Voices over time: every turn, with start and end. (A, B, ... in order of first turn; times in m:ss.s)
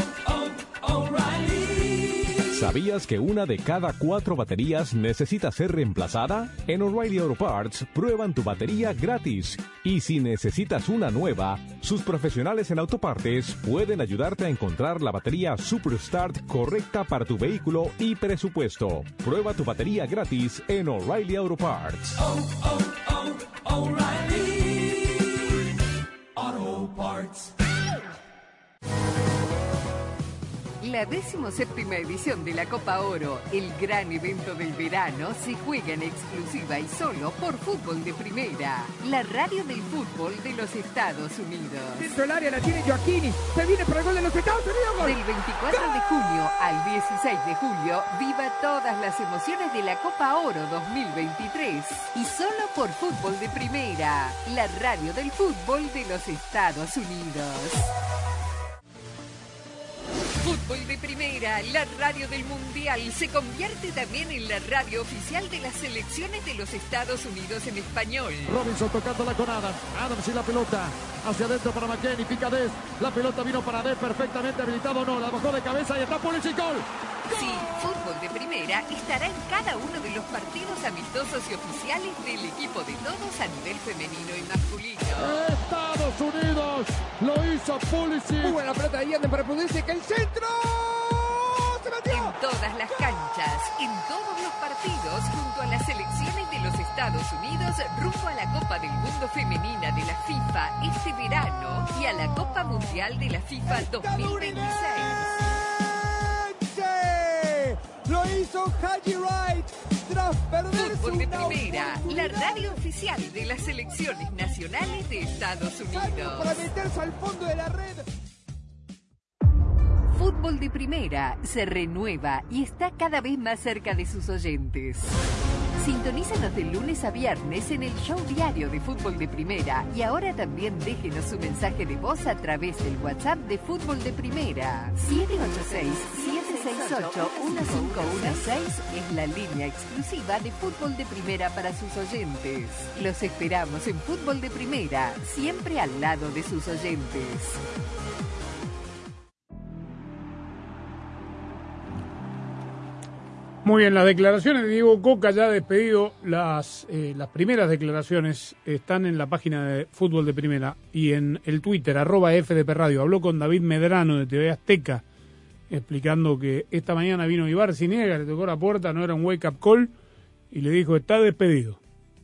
0:02.5-0:22.2 A
0:30.8-0:42.1 B
0:42.0-0:46.0 C
0:45.0-0:57.9 B
1:00.4-1:08.5 B
1:08.5-1:16.8 D
1:17.3-1:25.4 B
1:25.2-1:28.5 D
1:28.4-1:32.4 C
1:32.1-1:45.2 B
1:43.7-1:52.8 C
1:50.7-1:56.7 B
1:55.9-1:58.0 C
2:00.1-2:05.2 B
2:05.8-2:27.6 B
2:33.6-2:45.0 E
2:45.7-2:49.9 E
2:50.5-2:51.8 E